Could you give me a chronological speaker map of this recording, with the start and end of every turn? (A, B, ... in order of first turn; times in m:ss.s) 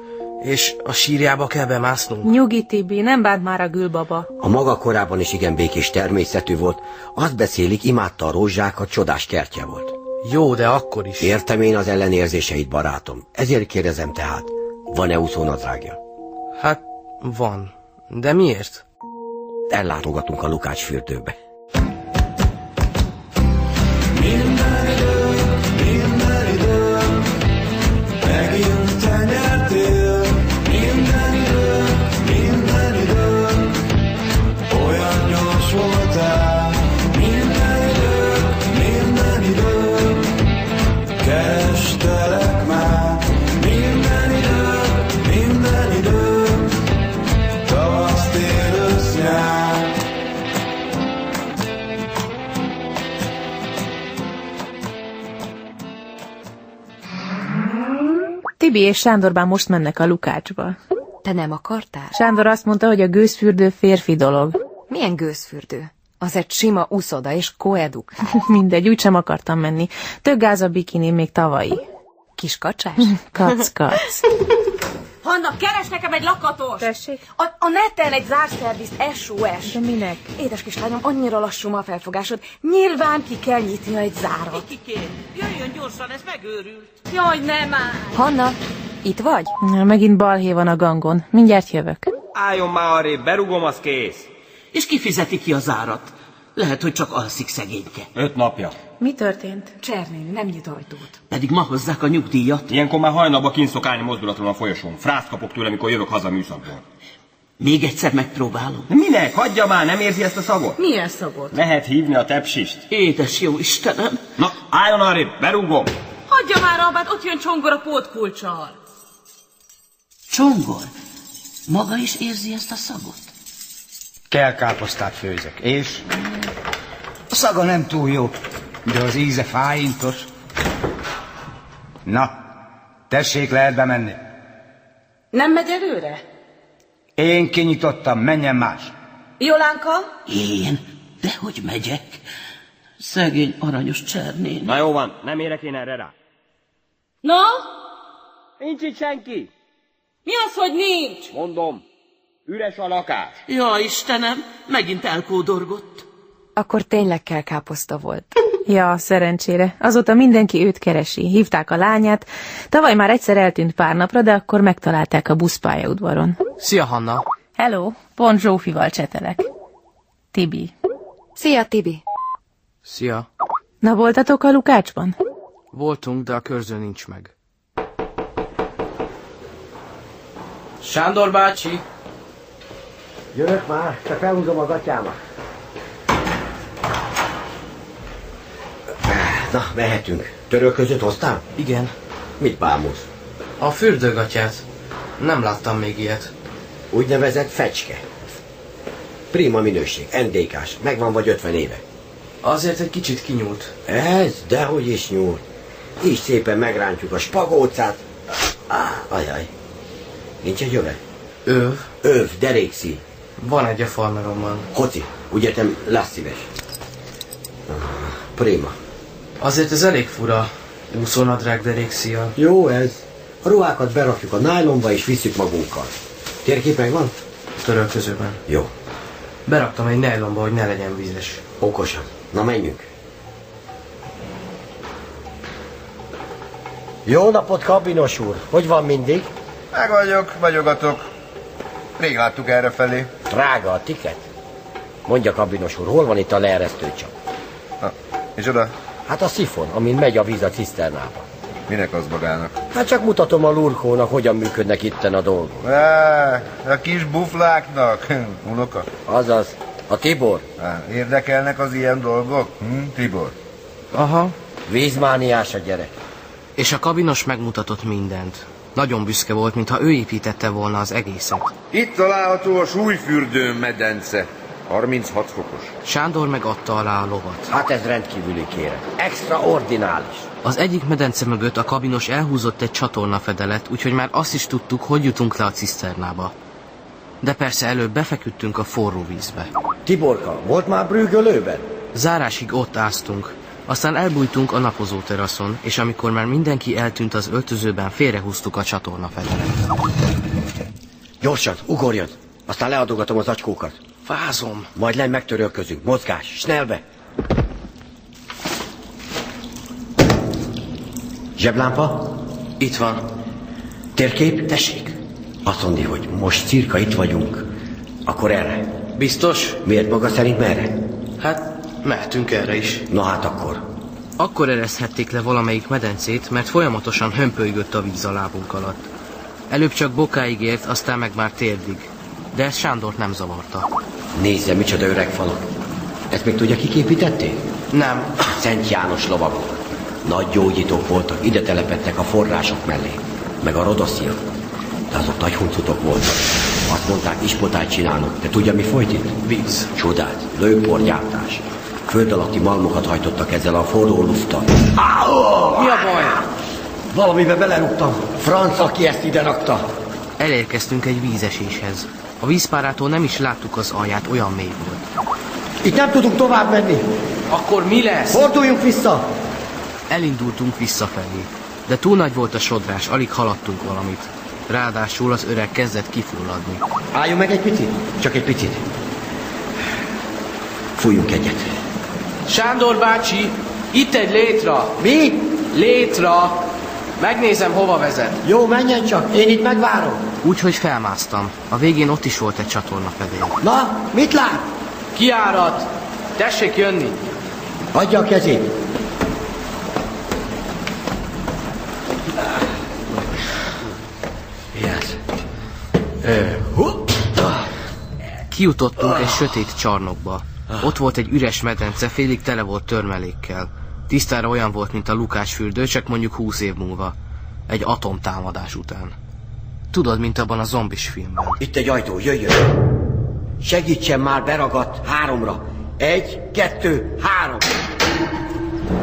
0:00.4-0:02.3 A
0:02.2-0:04.3 B
0:04.4-0:09.9 C
0:10.2-0:11.3 A
0:11.2-0:16.0 C
0:16.6-0:18.8 A
0:19.7-0:21.3 C
0:24.1-0:27.3 D
0:28.2-0:33.8 D
0:34.7-0:40.3 D
0:41.2-0:46.8 D
0:47.6-0:49.9 D
0:58.6-1:00.8 B
1:01.2-1:02.1 E
1:02.1-1:04.6 B
1:04.9-1:08.2 E
1:08.3-1:11.8 B
1:12.4-1:13.1 E
1:13.0-1:14.2 B
1:15.2-1:19.8 F
1:16.8-1:17.2 B
1:19.6-1:20.3 B
1:20.4-1:23.9 F
1:24.5-1:27.0 G
1:27.1-1:28.0 F
1:28.1-1:29.5 E
1:29.6-1:32.1 B
1:32.3-1:34.3 H
1:34.7-1:38.1 G
1:38.1-1:38.8 H
1:39.0-1:39.7 B
1:39.8-1:41.2 E
1:41.3-1:42.7 G
1:42.7-1:46.8 H
1:47.6-1:48.9 G
1:48.9-1:50.8 H
1:50.8-1:51.6 F
1:51.5-1:52.9 H
1:52.9-1:54.2 G
1:54.4-1:55.9 H
1:56.3-1:58.8 F
2:00.3-2:00.9 G
2:01.7-2:03.3 G
2:04.3-2:06.0 I
2:07.3-2:08.3 I
2:08.8-2:10.3 I
2:12.0-2:12.4 I
2:13.1-2:14.2 I
2:15.3-2:16.2 F
2:17.2-2:18.9 I
2:19.4-2:20.1 F
2:20.3-2:22.2 G
2:23.0-2:24.8 G
2:24.6-2:26.1 H
2:27.2-2:27.5 F
2:28.6-2:29.5 H
2:30.2-2:31.3 F
2:31.3-2:31.8 H
2:32.4-2:33.4 H
2:33.5-2:36.0 G
2:36.6-2:38.3 E
2:38.6-2:46.4 B
2:46.6-2:47.2 A
2:47.6-2:49.5 B
2:50.3-2:50.7 B
2:51.4-2:52.0 E
2:52.8-2:53.3 A
2:53.8-2:55.2 B
2:55.7-2:57.3 A
3:00.8-3:01.8 A
3:03.3-3:05.2 C
3:09.0-3:11.4 C
3:11.6-3:11.9 A
3:12.4-3:13.1 C
3:13.6-3:14.6 A
3:15.2-3:16.3 A
3:16.9-3:18.0 C
3:19.3-3:21.8 C
3:22.4-3:23.7 A
3:23.9-3:25.4 C
3:26.0-3:28.0 C
3:28.7-3:29.5 C
3:30.4-3:31.0 C
3:31.4-3:31.9 A
3:32.0-3:33.0 C
3:33.4-3:34.7 A
3:34.7-3:36.5 C
3:37.7-3:38.7 C
3:39.4-3:42.3 A
3:42.4-3:45.9 C
3:46.4-3:47.1 C
3:47.6-3:48.4 A
3:49.4-3:51.4 A
3:51.6-3:52.9 C
3:57.0-3:59.3 C
3:59.7-4:01.1 J
4:02.0-4:03.1 J
4:03.3-4:04.2 C
4:05.0-4:07.1 C
4:07.8-4:08.7 J
4:09.1-4:11.2 C
4:11.7-4:12.6 J
4:12.7-4:15.6 C
4:15.6-4:18.9 J
4:19.0-4:20.4 C
4:20.6-4:23.3 J
4:23.9-4:24.3 A
4:24.7-4:25.9 C
4:26.6-4:31.5 A
4:31.7-4:35.7 J
4:35.8-4:37.5 A
4:37.5-4:40.3 C
4:40.4-4:46.3 A
4:47.2-4:49.5 A
4:49.8-4:51.6 C
4:51.9-4:59.6 A
5:01.2-5:03.8 C
5:04.0-5:04.7 A
5:04.7-5:06.8 C
5:11.4-5:12.2 C
5:12.6-5:13.0 A
5:13.9-5:17.5 C
5:18.0-5:18.7 C
5:19.0-5:19.6 A
5:19.6-5:20.8 C
5:21.2-5:22.8 A
5:22.9-5:23.6 C
5:24.2-5:28.8 A
5:29.5-5:33.7 A
5:34.1-5:35.4 C
5:36.1-5:37.4 C
5:37.7-5:38.1 A
5:38.2-5:44.2 C
5:44.9-5:49.2 C
5:49.2-5:49.7 A
5:49.7-5:56.0 C
5:55.6-5:56.2 A
5:56.9-5:59.7 C
6:00.2-6:04.9 A
6:05.6-6:06.9 C
6:07.3-6:08.2 A
6:08.1-6:09.1 C
6:09.9-6:16.6 A
6:16.9-6:18.6 C
6:20.8-6:21.5 C
6:22.3-6:24.7 A
6:24.8-6:25.3 C
6:25.5-6:26.4 A
6:27.0-6:28.2 A
6:28.2-6:30.0 C
6:30.2-6:33.4 A
6:33.4-6:34.4 C
6:34.9-6:37.0 A
6:37.7-6:38.5 C
6:44.5-6:44.9 C
6:46.0-6:47.3 C
6:48.3-6:57.0 A
6:57.5-6:58.9 A
6:59.7-7:01.4 A
7:01.4-7:02.5 C
7:03.4-7:07.5 C